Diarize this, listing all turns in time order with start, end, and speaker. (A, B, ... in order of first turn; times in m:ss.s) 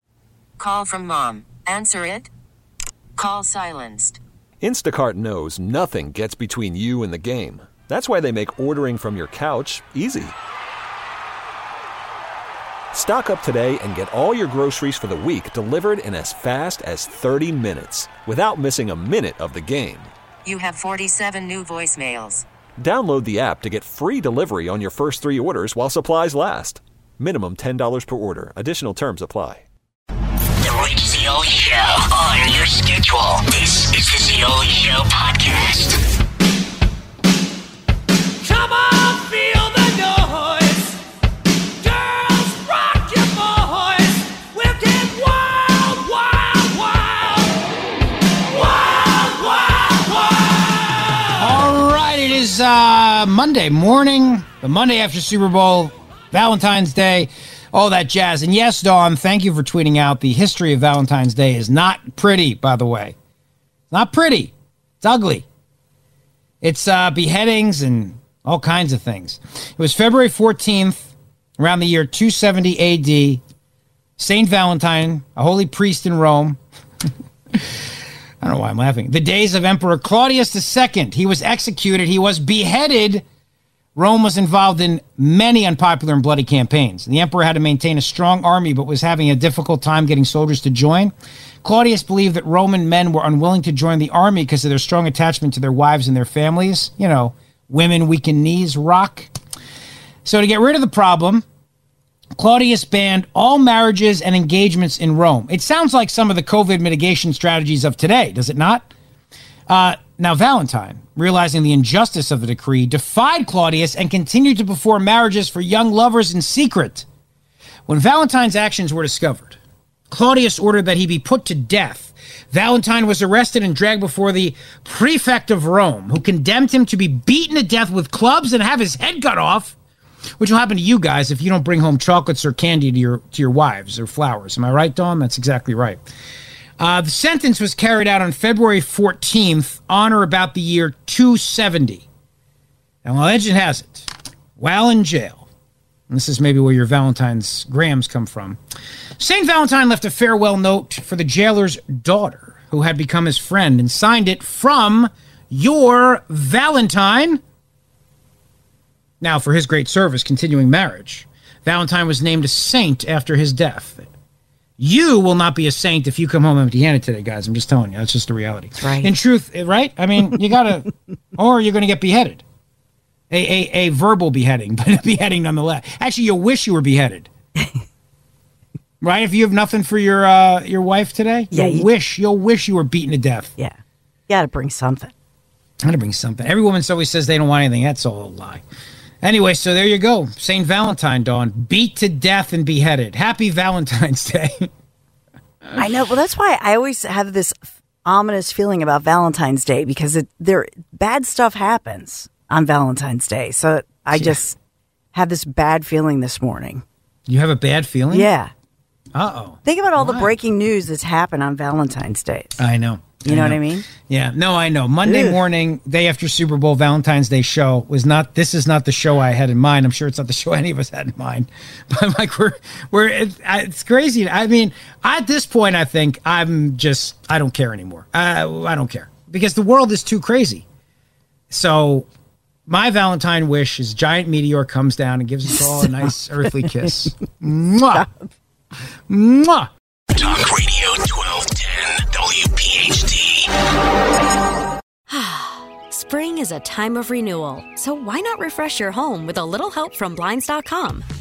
0:00.6-0:02.3 A
0:03.2-0:04.2 A
0:04.6-0:10.3 B
0:12.9-0:20.1 B
0:20.4-0:22.4 A
0:22.8-0:29.6 B
0:30.6-0:36.0 C
0:38.4-0:41.0 D
0:41.8-0:47.4 D
0:48.6-0:50.4 D
0:51.4-1:03.1 E
1:03.9-1:05.4 E
1:06.6-1:13.4 E
1:14.2-1:16.6 E
1:18.4-1:23.2 E
1:24.0-1:31.1 E
1:31.6-1:39.3 E
1:40.2-1:41.4 E
1:42.4-1:48.9 E
1:49.7-1:57.0 E
1:57.9-1:59.6 E
2:00.1-2:09.8 E
2:10.4-2:16.0 E
2:16.8-2:22.0 E
2:23.0-2:25.4 E
2:26.1-2:28.6 E
2:29.2-2:37.4 E
2:39.2-2:44.1 E
2:44.8-2:52.4 E
2:48.8-2:49.1 F
2:53.3-2:57.3 E
2:59.0-3:03.5 E
3:01.5-3:01.9 F
3:04.3-3:05.1 F
3:05.8-3:08.6 E
3:09.2-3:14.7 E
3:15.8-3:24.6 F
3:25.1-3:26.8 F
3:27.3-3:28.3 E
3:28.1-3:28.5 F
3:29.1-3:30.3 E
3:29.6-3:32.6 F
3:32.6-3:50.6 E
3:33.2-3:33.9 F
3:35.0-3:35.4 F
3:51.5-3:52.1 E
3:52.7-3:58.1 E
3:59.1-3:59.7 E
4:00.1-4:03.4 C
4:05.1-4:11.0 G